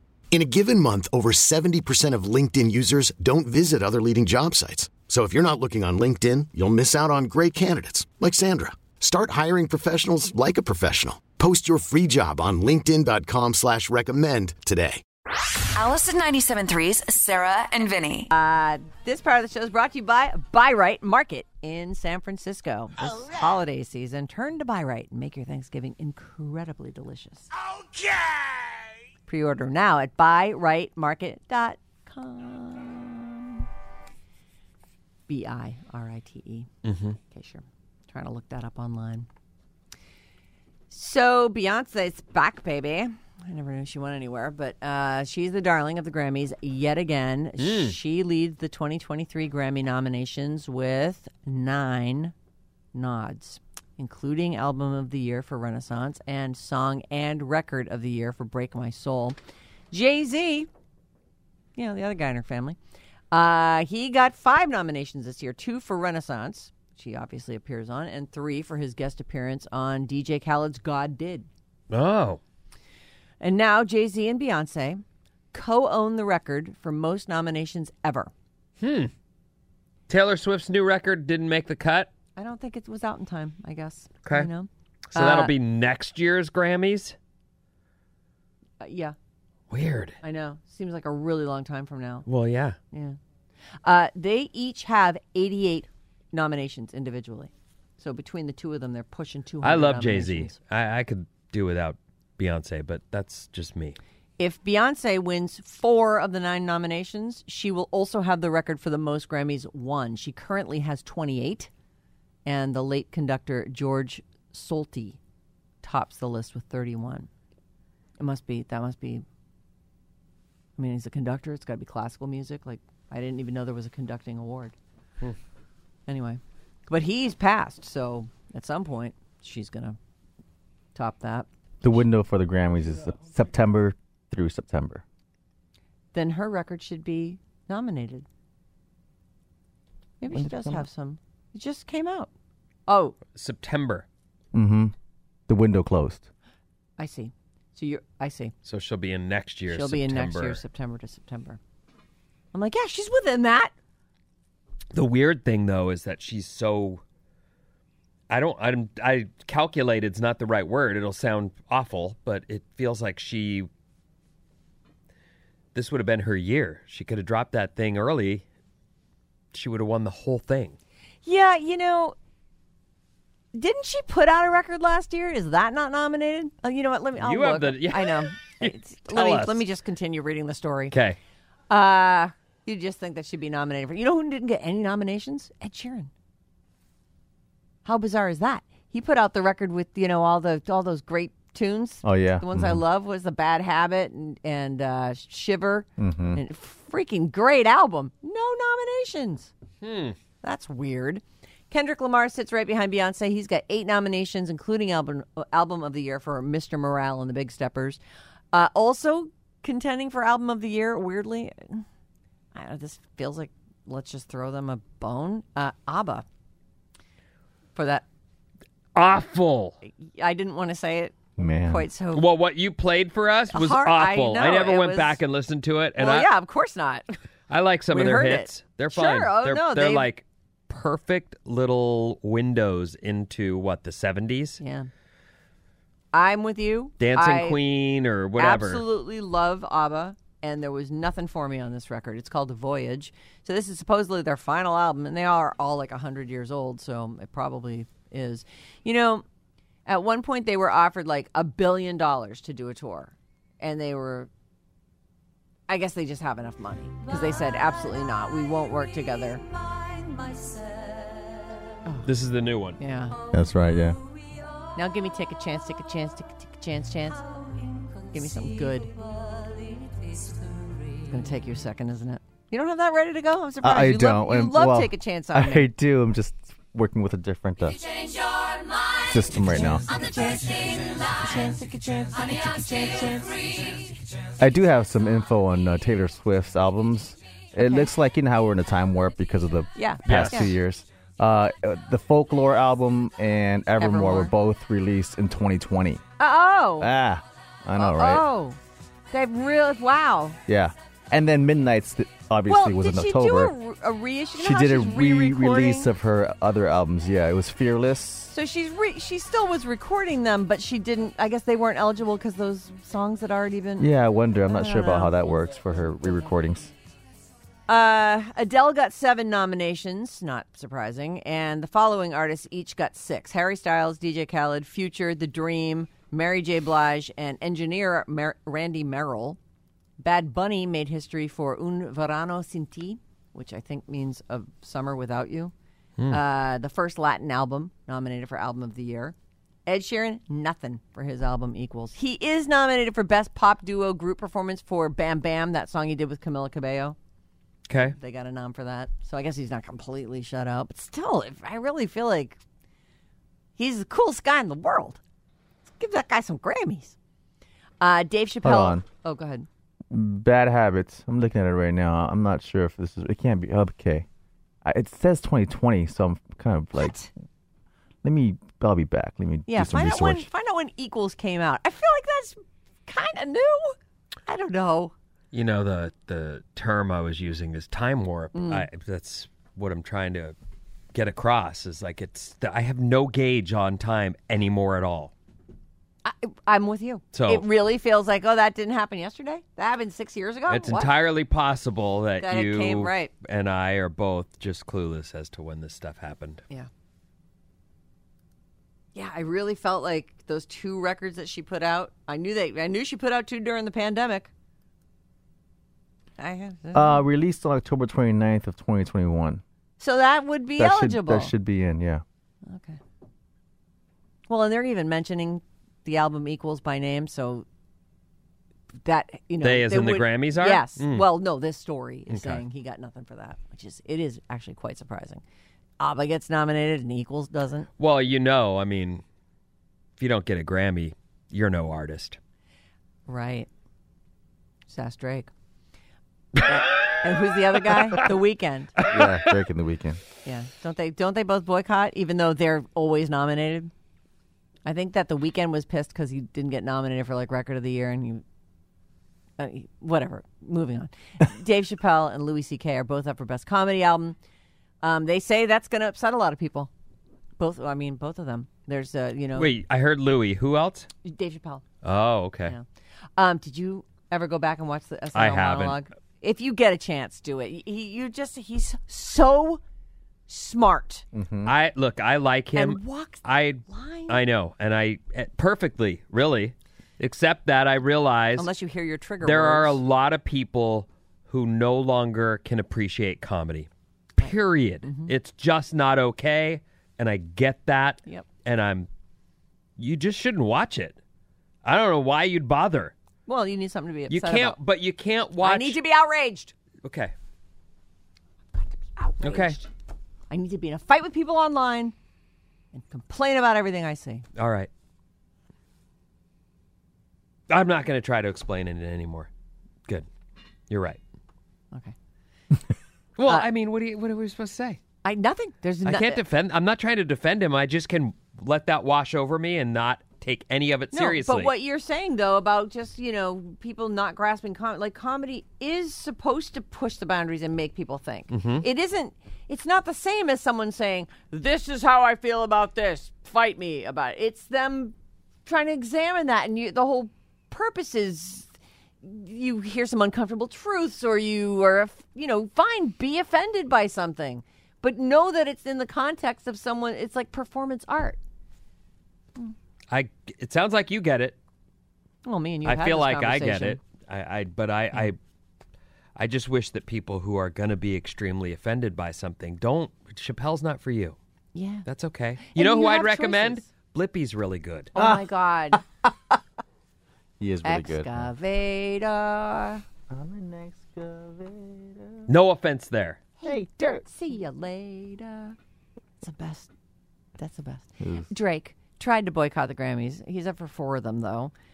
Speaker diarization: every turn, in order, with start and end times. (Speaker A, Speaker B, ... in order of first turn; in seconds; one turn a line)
Speaker A: 0.3-15.0
Speaker B: 15.7-18.3
Speaker C: 18.3-27.5
Speaker C: 29.3-33.7
Speaker C: 35.3-36.7
Speaker D: 36.8-37.2
Speaker C: 37.3-39.3
Speaker C: 40.9-52.3
Speaker D: 47.6-48.0
Speaker C: 52.9-59.4
Speaker C: 59.9-60.7
Speaker C: 61.8-62.8
Speaker C: 63.3-71.5
Speaker D: 71.9-72.4
Speaker C: 73.4-78.3
Speaker D: 78.8-79.1
Speaker D: 80.1-82.1
Speaker C: 82.3-85.5
Speaker D: 85.1-87.1
Speaker C: 88.8-89.1
Speaker D: 89.7-90.2
Speaker C: 90.2-92.2
Speaker D: 92.3-92.8
Speaker C: 92.9-93.2
Speaker C: 93.8-100.6
Speaker D: 99.6-104.0
Speaker C: 104.4-111.7
Speaker C: 112.5-115.2
Speaker C: 115.8-117.3
Speaker C: 118.2-119.2
Speaker C: 120.8-124.7
Speaker C: 126.1-130.0
Speaker C: 130.9-131.5
Speaker E: 131.8-135.0
Speaker C: 136.1-138.2
Speaker C: 140.2-142.3
Speaker E: 140.3-140.8
Speaker C: 142.9-143.2
Speaker D: 143.3-144.1
Speaker E: 144.5-144.9
Speaker E: 145.5-146.3
Speaker C: 147.0-148.5
Speaker D: 148.6-150.6
Speaker C: 149.7-151.6
Speaker C: 152.5-153.7
Speaker D: 154.9-157.0
Speaker D: 158.3-163.7
Speaker D: 165.7-168.4
Speaker D: 169.5-170.8
Speaker C: 171.2-172.2
Speaker C: 173.5-180.9
Speaker D: 177.2-179.6
Speaker D: 180.9-181.2
Speaker C: 181.7-186.1
Speaker C: 187.8-199.5
Speaker E: 192.0-192.8
Speaker E: 196.0-196.4
Speaker D: 199.8-200.2
Speaker C: 200.4-208.0
Speaker C: 208.5-211.8
Speaker C: 212.5-216.2
Speaker C: 217.7-218.0
Speaker D: 218.9-219.8
Speaker C: 219.8-222.2
Speaker E: 221.4-221.8
Speaker D: 222.1-226.3
Speaker C: 223.5-225.2
Speaker C: 226.0-227.2
Speaker D: 227.5-234.6
Speaker C: 227.9-230.1
Speaker C: 234.6-234.9
Speaker C: 236.1-237.6
Speaker D: 237.0-238.8
Speaker C: 238.4-249.2
Speaker C: 249.8-254.3
Speaker C: 255.7-259.4
Speaker D: 262.0-262.8
Speaker C: 262.8-263.2
Speaker E: 263.3-264.0
Speaker C: 264.7-267.3
Speaker C: 268.1-269.1
Speaker C: 271.0-275.7
Speaker E: 273.6-277.8
Speaker E: 279.0-279.9
Speaker C: 279.5-283.8
Speaker E: 284.4-296.0
Speaker C: 287.6-287.9
Speaker C: 289.8-290.5
Speaker D: 290.0-290.5
Speaker C: 293.8-294.3
Speaker C: 296.2-296.9
Speaker E: 296.8-298.3
Speaker C: 297.8-298.6
Speaker C: 299.1-300.4
Speaker E: 300.5-303.5
Speaker C: 302.5-305.9
Speaker E: 304.4-308.3
Speaker C: 308.3-313.9
Speaker E: 313.8-316.7
Speaker C: 314.5-315.3
Speaker C: 317.7-329.4
Speaker C: 330.0-335.5
Speaker C: 336.1-339.1
Speaker C: 339.6-347.0
Speaker D: 347.7-347.9
Speaker C: 347.8-352.4
Speaker C: 353.6-355.0
Speaker C: 355.7-356.9
Speaker C: 357.8-359.5
Speaker E: 358.4-358.8
Speaker E: 359.9-364.1
Speaker E: 364.6-367.0
Speaker C: 366.8-367.1
Speaker E: 368.0-370.3
Speaker C: 369.5-373.8
Speaker C: 374.3-374.9
Speaker D: 375.3-380.3
Speaker C: 378.3-378.6
Speaker D: 380.9-385.1
Speaker C: 386.0-390.9
Speaker D: 387.1-387.4
Speaker D: 390.5-396.4
Speaker C: 392.2-393.1
Speaker C: 398.9-404.3
Speaker C: 406.2-407.0
Speaker E: 406.7-409.4
Speaker C: 409.8-411.3
Speaker E: 410.6-412.0
Speaker C: 412.4-412.8
Speaker C: 414.3-417.4
Speaker C: 418.8-425.2
Speaker D: 419.4-421.1
Speaker D: 422.1-422.4
Speaker C: 425.8-427.7
Speaker D: 427.8-429.0
Speaker D: 430.0-432.2
Speaker C: 433.1-433.5
Speaker C: 434.7-435.3
Speaker C: 436.4-438.8
Speaker E: 438.8-440.0
Speaker C: 440.2-443.7
Speaker C: 444.6-448.2
Speaker C: 449.4-454.2
Speaker C: 454.8-456.7
Speaker C: 457.4-459.5
Speaker D: 459.4-460.9
Speaker C: 461.0-461.6
Speaker D: 461.8-462.5
Speaker C: 463.2-469.6
Speaker D: 465.1-465.8
Speaker C: 470.3-471.0
Speaker E: 471.1-471.5
Speaker D: 471.4-478.5
Speaker C: 472.5-474.2
Speaker C: 478.4-479.8
Speaker D: 479.2-488.9
Speaker C: 484.8-485.1
Speaker D: 489.8-491.0
Speaker D: 491.6-492.9
Speaker C: 493.3-494.6
Speaker D: 494.1-495.8
Speaker C: 495.4-496.5
Speaker D: 496.8-497.1
Speaker C: 498.6-499.7
Speaker D: 499.2-499.6
Speaker C: 500.3-501.9
Speaker C: 502.7-504.2
Speaker D: 504.4-504.7
Speaker D: 507.5-509.3
Speaker D: 510.7-511.0
Speaker D: 513.2-514.8
Speaker C: 515.0-516.2
Speaker D: 515.8-521.5
Speaker C: 520.9-538.5
Speaker D: 528.3-528.6
Speaker C: 539.0-548.2
Speaker D: 549.9-551.4
Speaker C: 552.2-553.8
Speaker D: 552.6-555.2
Speaker D: 556.1-561.2
Speaker C: 561.5-561.9
Speaker D: 561.9-564.9
Speaker C: 562.5-563.6
Speaker C: 564.9-565.8
Speaker E: 565.7-566.1
Speaker E: 567.4-568.3
Speaker C: 567.6-569.8
Speaker E: 570.1-572.2
Speaker D: 572.3-573.2
Speaker E: 573.4-574.0
Speaker C: 573.4-575.5
Speaker C: 576.2-576.7
Speaker C: 577.4-581.5
Speaker E: 578.0-578.3